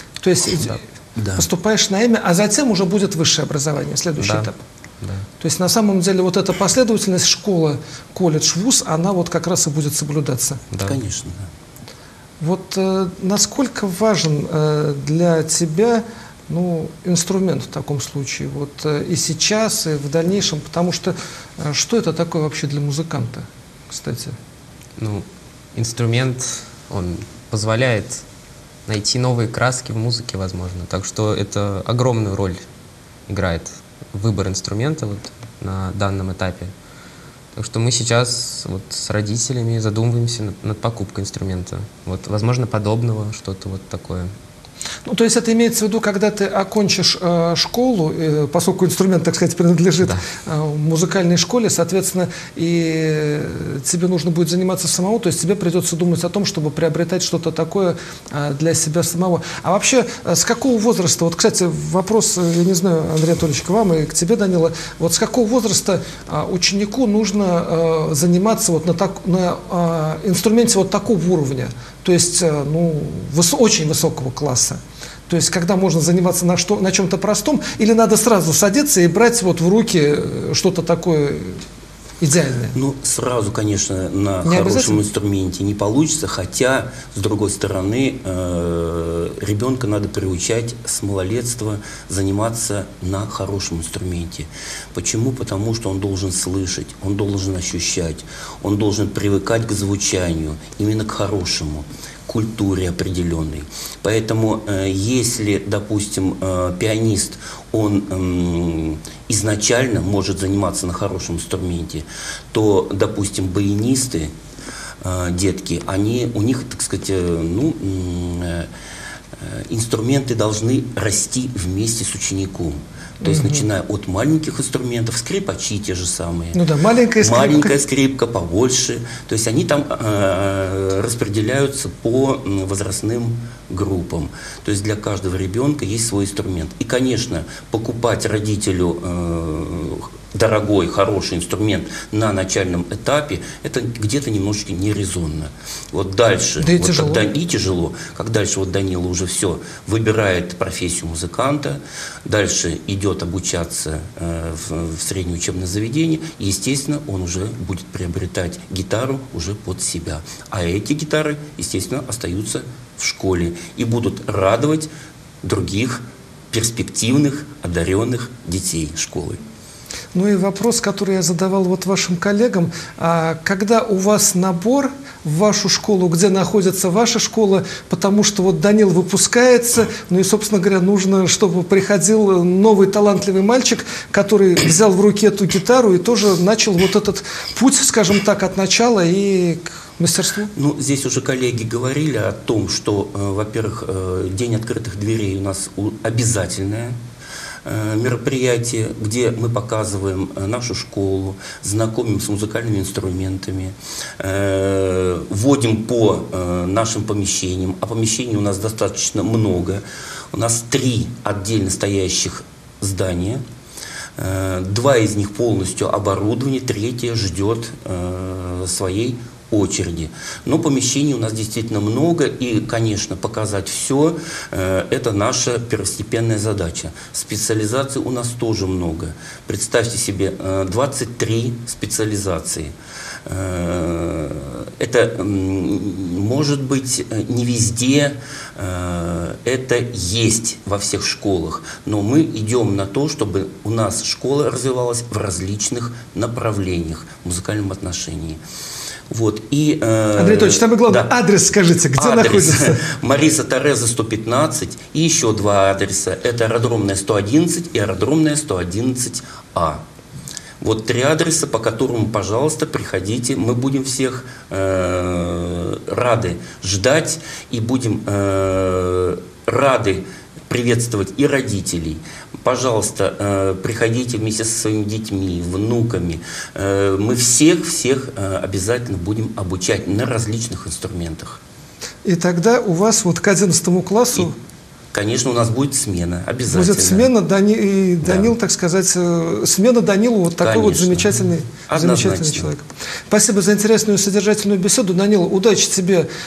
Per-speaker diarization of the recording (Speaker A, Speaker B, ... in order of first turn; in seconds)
Speaker A: 0.2-0.8, 1.4-4.6, 5.4-10.6, 12.4-24.4, 45.0-81.6, 82.2-82.8, 84.4-85.0, 123.2-123.7, 126.5-127.8, 146.6-147.3, 170.1-190.5, 250.2-252.8, 282.0-284.3, 286.5-296.1
Speaker B: 1.2-1.4, 10.8-11.5, 82.7-114.3, 115.0-118.7, 119.4-126.6, 127.2-164.9, 165.4-169.4, 190.5-196.9, 197.6-213.4, 214.2-232.7, 233.2-248.4, 249.1-251.1, 251.9-259.8, 260.6-281.4, 284.9-287.1, 288.0-288.3, 290.4-292.5
Speaker C: 4.2-5.3, 10.7-11.0, 25.0-28.2, 28.9-32.6, 33.3-36.7, 37.5-44.3